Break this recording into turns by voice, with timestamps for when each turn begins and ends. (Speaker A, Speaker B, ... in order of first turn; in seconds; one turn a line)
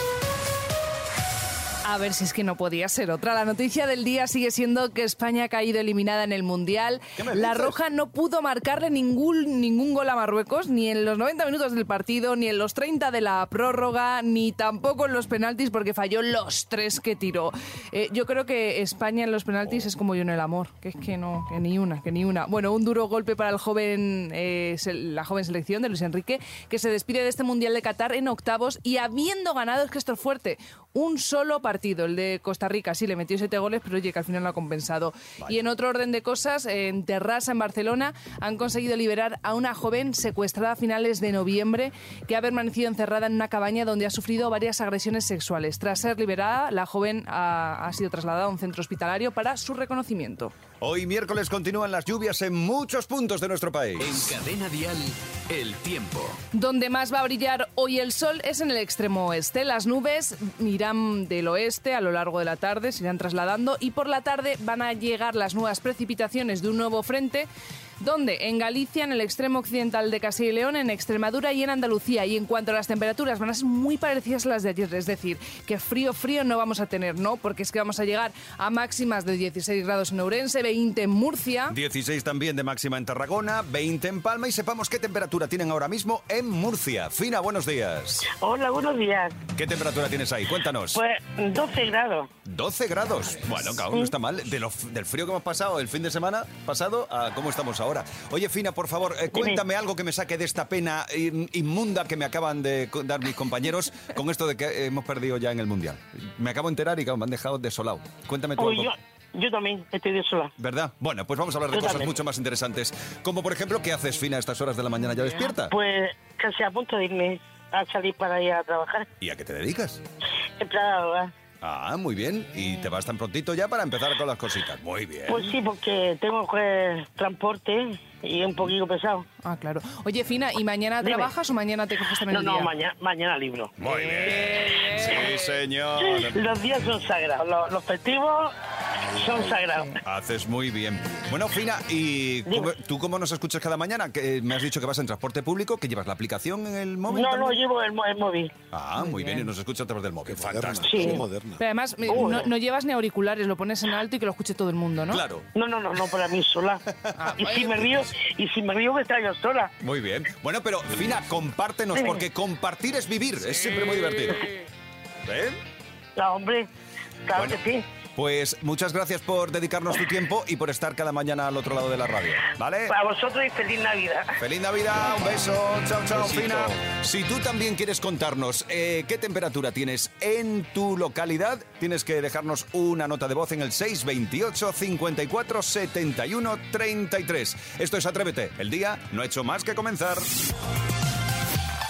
Speaker A: 1.9-50.5
Speaker B: 7.2-7.8
Speaker B: 50.8-54.3
Speaker C: 54.0-56.4
Speaker A: 56.5-67.5
Speaker A: 68.0-81.8
Speaker B: 81.7-88.3
Speaker D: 88.3-89.4
Speaker B: 89.5-91.0
Speaker D: 90.9-92.3
Speaker B: 92.5-108.9
Speaker D: 99.3-99.6
Speaker D: 108.6-110.5
Speaker B: 110.6-115.8
Speaker D: 111.7-112.1
Speaker D: 115.7-119.1
Speaker B: 119.2-120.0
Speaker D: 120.6-121.3
Speaker B: 121.6-125.5
Speaker D: 125.3-129.3
Speaker A: 129.4-132.7
Speaker D: 131.0-131.3
Speaker D: 132.3-133.7
Speaker B: 133.8-136.4
Speaker A: 133.9-135.5
Speaker D: 136.0-138.5
Speaker D: 139.1-140.0
Speaker B: 140.0-147.6
Speaker D: 142.5-142.7
Speaker D: 147.1-148.5
Speaker B: 148.7-151.2
Speaker A: 149.0-149.5
Speaker E: 150.3-152.4
Speaker D: 150.9-151.2
Speaker A: 151.6-155.2
Speaker D: 152.1-152.5
Speaker B: 155.1-155.5
Speaker D: 155.5-156.8
Speaker A: 157.2-157.9
Speaker D: 157.4-159.7
Speaker B: 159.8-164.5
Speaker D: 161.9-162.2
Speaker B: 165.3-165.6
Speaker D: 166.2-166.7
Speaker D: 167.3-167.8
Speaker B: 167.3-167.6
Speaker B: 168.2-172.9
Speaker D: 172.9-174.3
Speaker B: 174.4-190.3
Speaker E: 176.1-176.8